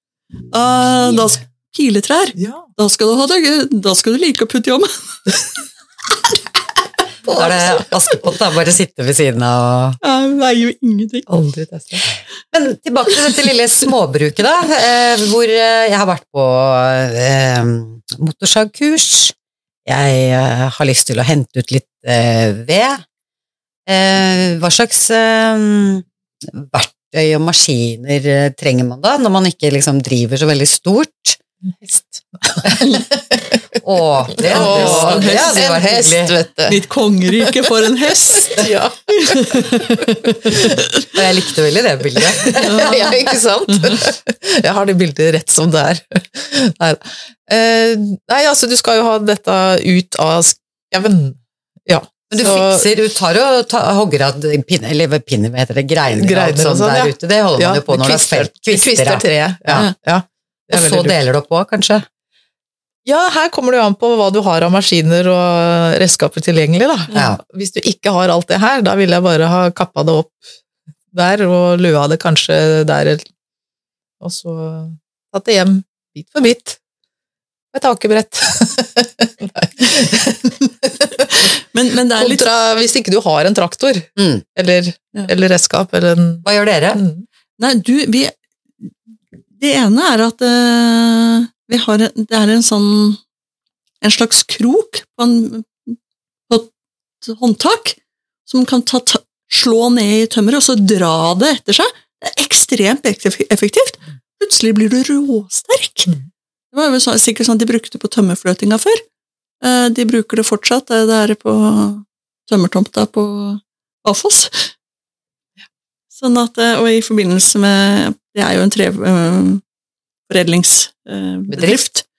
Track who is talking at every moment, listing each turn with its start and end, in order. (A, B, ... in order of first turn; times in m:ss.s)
0:00.5-0:04.9 A
0:02.4-0:02.7 B
0:07.3-0:10.0 C
0:10.0-0:11.3 A
0:11.3-0:12.1 B
0:12.5-0:19.3 C
0:19.8-0:23.0 C
0:23.9-0:31.4 C
0:31.8-0:33.6 B
0:33.8-0:36.3 C
0:34.4-0:36.8 B
0:34.5-0:35.6 A
0:36.7-0:41.1 A
0:37.3-0:37.8 B
0:38.5-0:40.8 B
0:41.1-0:43.1 C
0:42.4-0:52.9 B
0:42.6-0:43.2 A
0:43.7-0:44.0 A
0:52.3-0:59.9 C
0:56.1-1:01.2 B
1:00.7-1:02.1 C
1:03.1-1:10.4 B
1:07.1-1:07.4 C
1:11.1-1:13.3 B
1:14.2-1:16.8 B
1:17.7-1:21.5 B
1:21.4-1:22.5 A
1:22.2-1:27.2 B
1:24.2-1:24.4 C
1:26.4-1:27.0 C
1:27.6-1:28.4 A
1:29.6-1:33.2 A
1:34.0-1:36.0 A
1:37.2-1:46.1 A
1:46.7-1:49.0 A
1:49.6-1:54.7 A
1:56.1-1:59.6 A
2:00.3-2:02.0 A
2:01.5-2:01.8 C